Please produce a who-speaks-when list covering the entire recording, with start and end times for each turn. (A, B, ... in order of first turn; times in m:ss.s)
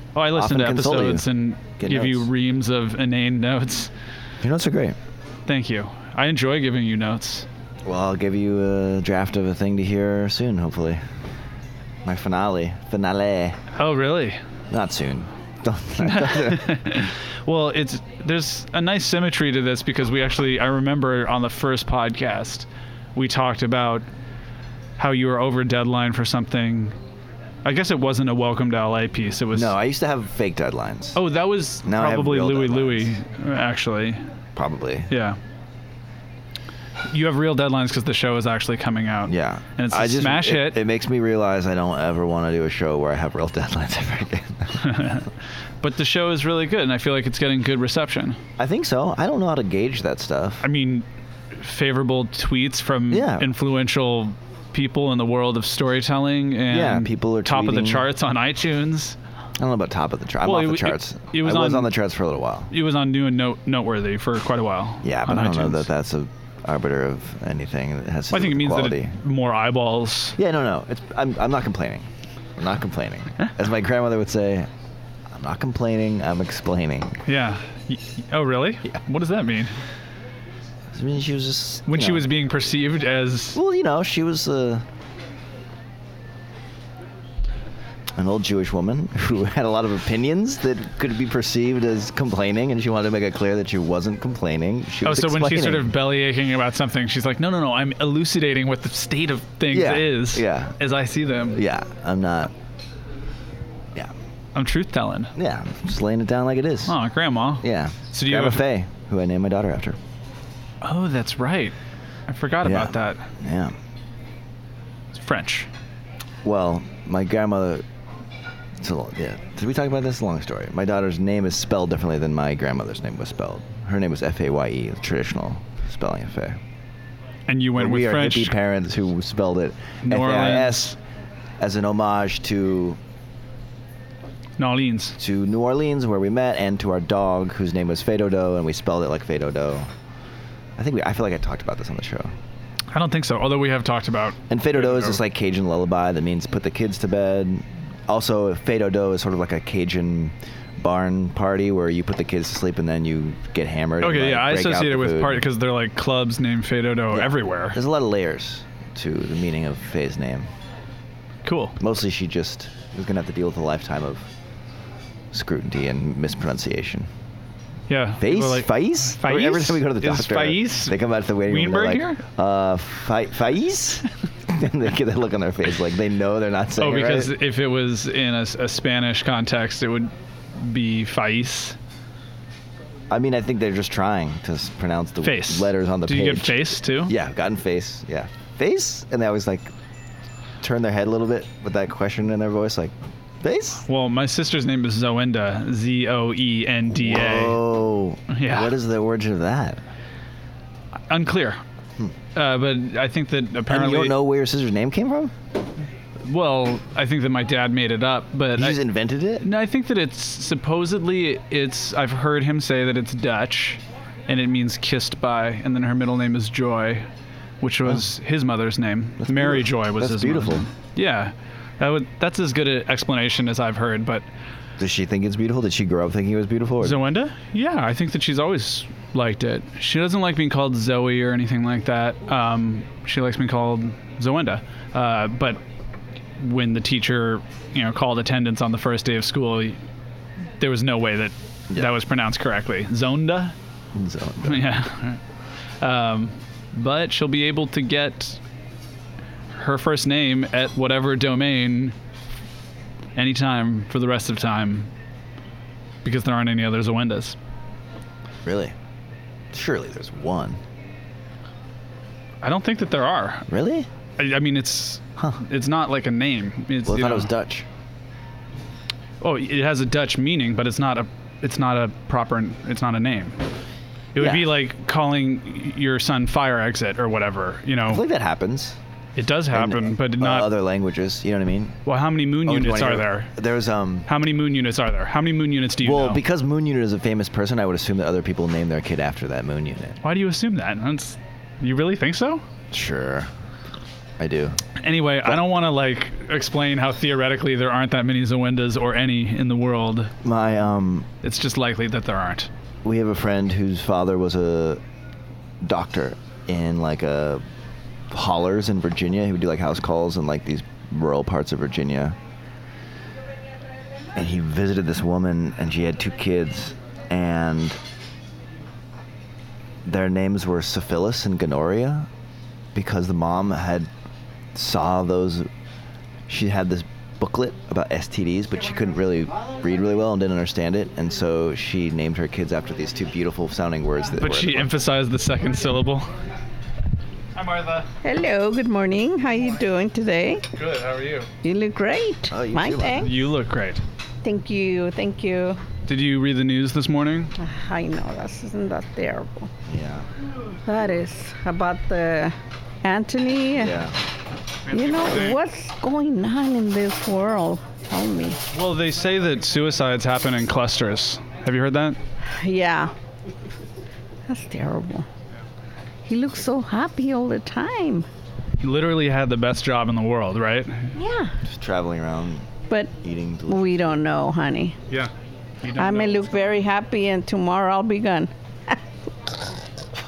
0:00.1-0:03.9 A
0:00.3-0:01.3 B
0:01.8-0:02.3 B
0:04.4-0:05.0 B
0:05.5-0:07.5 A
0:07.8-0:11.0 B
0:12.0-0:13.6 B
0:13.8-0:14.4 A
0:14.7-0:16.8 B
0:16.0-0:24.0 A
0:25.0-0:27.0 A
0:27.6-0:29.7 A
0:29.5-0:31.2 B
0:31.1-0:34.2 A
0:31.8-0:33.2 B
0:34.5-0:35.1 B
0:35.1-0:35.4 A
0:37.1-0:40.8 A
0:39.3-0:45.1 B
0:44.8-0:48.4 A
0:48.6-0:50.6 B
0:50.6-0:59.2 A
0:53.1-0:53.5 B
0:56.7-0:58.1 B
0:59.6-1:02.7 B
1:00.4-1:01.9 A
1:02.7-1:05.9 A
1:05.0-1:09.1 B
1:08.3-1:10.4 A
1:10.4-1:14.7 B
1:15.3-1:17.2 B
1:17.2-1:19.8 A
1:20.9-1:22.3 B
1:21.9-1:23.6 A
1:23.5-1:24.8 B
1:28.1-1:35.9 B
1:35.0-1:41.6 A
1:39.7-1:40.8 B
1:41.5-1:42.5 B
1:44.5-1:45.3 A
1:45.4-1:46.9 B
1:46.8-1:48.6 A
1:47.6-1:50.0 B
1:50.8-1:51.7 A
1:52.3-1:53.3 A
1:52.6-1:53.8 B
1:55.1-1:55.7 A
1:56.4-1:57.8 B
1:58.8-2:06.6 B
2:07.5-2:08.6 A
2:07.8-2:10.9 B
2:10.0-2:10.9 A
2:11.6-2:13.0 B
2:14.6-2:15.2 A
2:15.2-2:19.9 B
2:20.8-2:22.3 B
2:22.9-2:25.2 A
2:24.5-2:35.4 B
2:34.0-2:37.8 A
2:37.1-2:40.5 B
2:41.4-2:41.8 A
2:41.8-2:44.3 B
2:45.3-2:47.1 B
2:47.9-2:52.2 A
2:48.2-2:57.3 B
2:56.8-3:01.8 A
3:03.1-3:09.7 B
3:05.2-3:07.1 A
3:10.6-3:13.8 B
3:13.8-3:17.6 A
3:16.9-3:19.8 B
3:18.3-3:18.7 A
3:21.1-3:21.6 A
3:22.3-3:24.1 A
3:23.7-3:25.3 B
3:26.2-3:28.8 A
3:28.6-3:29.4 B
3:29.4-3:37.1 A
3:37.6-3:44.2 A
3:39.2-3:40.7 B
3:44.8-3:47.0 B
3:46.8-3:55.6 A
3:56.4-3:59.8 A
4:00.6-4:03.5 A
4:03.9-4:04.7 B
4:04.4-4:05.2 A
4:05.8-4:08.4 A
4:09.5-4:12.0 A
4:13.2-4:14.9 A
4:16.0-4:17.4 A
4:18.4-4:18.8 B
4:19.5-4:20.6 B
4:22.4-4:23.5 A
4:23.5-4:23.9 B
4:24.2-4:27.3 A
4:26.8-4:27.7 B
4:29.2-4:33.4 A
4:34.1-4:38.0 A
4:34.2-4:34.5 B
4:37.9-4:38.8 B
4:39.2-4:40.5 A
4:39.5-4:41.8 B
4:41.8-4:43.3 A
4:42.4-4:44.1 B
4:44.1-4:46.2 A
4:45.8-4:50.0 B
4:50.0-4:52.4 A
4:52.7-4:53.3 B
4:54.2-4:54.6 B
4:54.8-5:00.1 A
5:00.2-5:01.1 B
5:01.2-5:02.5 A
5:02.8-5:04.8 B
5:05.6-5:07.4 B
5:08.1-5:12.2 B
5:14.1-5:17.8 B
5:19.8-5:22.1 B
5:22.7-5:23.9 B
5:24.5-5:25.5 B
5:26.3-5:34.7 B
5:34.2-5:36.1 A
5:37.3-5:37.9 A
5:38.0-5:40.4 C
5:40.5-5:41.3 A
5:41.4-5:43.1 C
5:42.3-5:43.2 B
5:43.0-5:43.8 A
5:44.2-5:45.6 C
5:45.9-5:47.3 A
5:47.4-5:49.5 C
5:49.7-5:50.1 B
5:50.6-5:53.8 C
5:53.5-5:53.9 B
5:54.7-5:55.4 A
5:54.7-5:58.4 C
5:58.5-6:02.0 A
6:02.3-6:02.9 C
6:04.3-6:05.1 C
6:06.0-6:08.1 C
6:08.6-6:11.0 A
6:10.9-6:11.4 C
6:11.4-6:12.5 B
6:12.7-6:12.9 C
6:13.0-6:13.9 B
6:13.5-6:14.8 C
6:15.6-6:16.3 A
6:15.8-6:18.8 C